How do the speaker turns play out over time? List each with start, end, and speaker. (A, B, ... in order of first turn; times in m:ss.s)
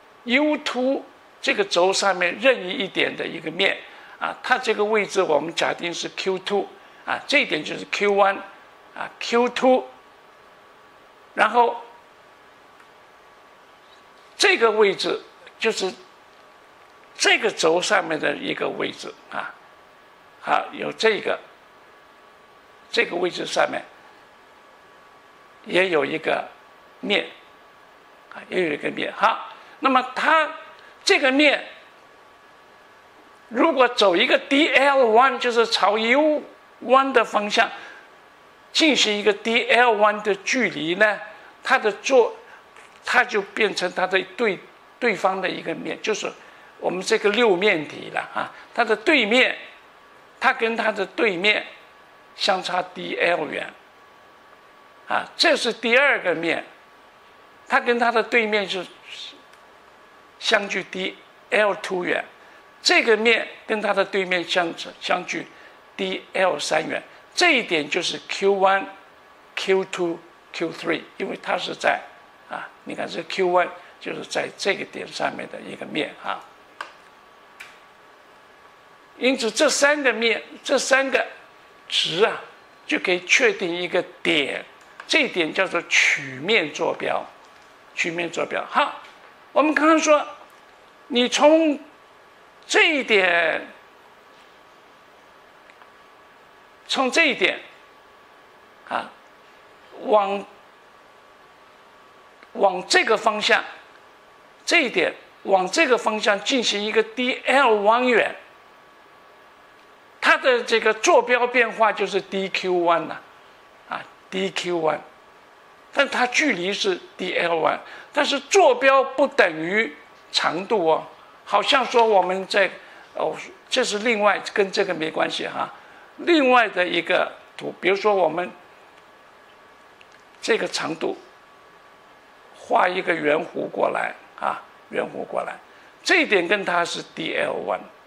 0:00.2-0:08.4 A
0:09.0-0:09.9 A
0:11.4-0:11.9 A
0:14.4-0:16.0 A
0:17.2-0:19.5 A
0:20.4-0:21.4 A
0:22.9-0:23.8 A
0:25.6-0:26.5 A
0:27.0-0:27.3 A
0:28.3-0:31.7 A
0:33.5-0:37.7 A
0:38.7-0:42.4 A
0:43.0-0:49.6 A
0:50.4-0:51.7 A
0:52.4-0:53.7 A
0:55.1-0:56.7 A
0:57.7-0:59.4 A
1:00.4-1:02.3 A
1:02.8-1:08.9 A
1:09.6-1:16.4 A
1:19.2-1:21.3 A
1:21.9-1:27.3 A
1:28.0-1:29.0 A
1:29.5-1:30.3 A
1:31.1-1:31.8 A
1:32.7-1:33.7 A
1:36.9-1:37.6 A
1:38.9-1:39.1 A
1:39.9-1:40.5 A
1:42.5-1:43.6 A
1:44.6-1:48.4 A
1:50.2-1:53.2 A
1:53.9-1:55.0 A
1:55.9-2:08.5 A
2:10.4-2:11.2 A
2:12.6-2:17.9 A